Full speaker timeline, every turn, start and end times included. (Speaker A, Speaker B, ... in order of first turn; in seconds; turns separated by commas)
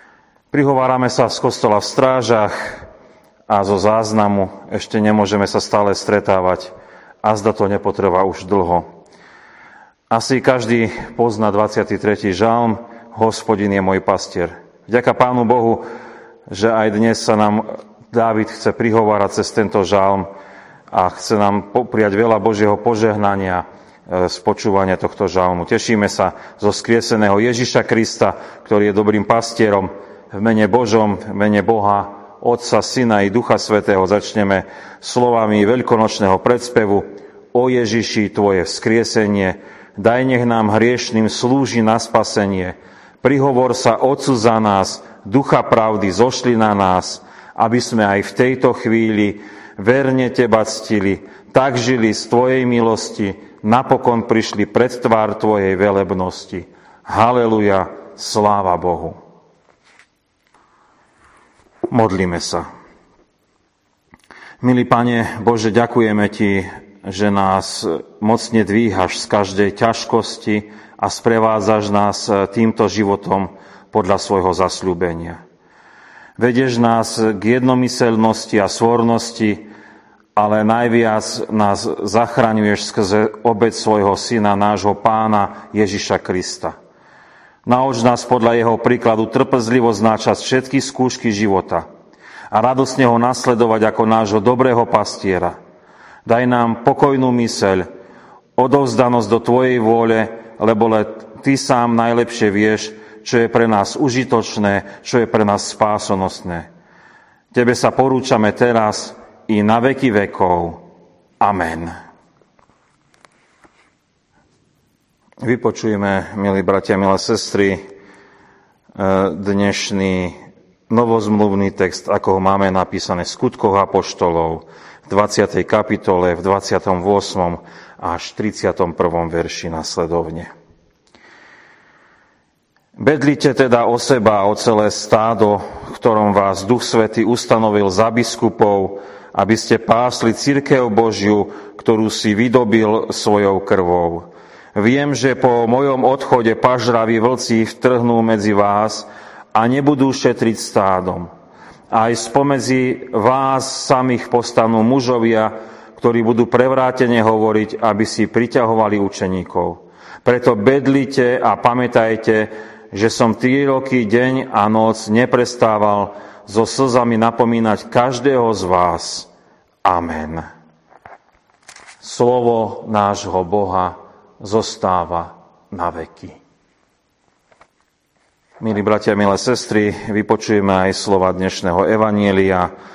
Speaker A: 0.5-2.9, Speaker A: 3.5-8.9, Speaker A: 10.1-15.8, Speaker A: 16.5-20.3, Speaker A: 20.9-59.2, Speaker A: 61.9-62.6, Speaker A: 64.6-75.4, Speaker A: 76.4-79.7, Speaker A: 80.4-86.8, Speaker A: 87.7-91.8, Speaker A: 92.5-95.6, Speaker A: 96.3-97.9, Speaker A: 98.6-106.7, Speaker A: 107.5-110.8, Speaker A: 111.4-111.9, Speaker A: 115.4-117.8, Speaker A: 119.0-120.4, Speaker A: 120.9-130.5, Speaker A: 133.0-151.3, Speaker A: 151.9-169.3, Speaker A: 169.8-170.5, Speaker A: 172.0-176.4, Speaker A: 178.6-182.7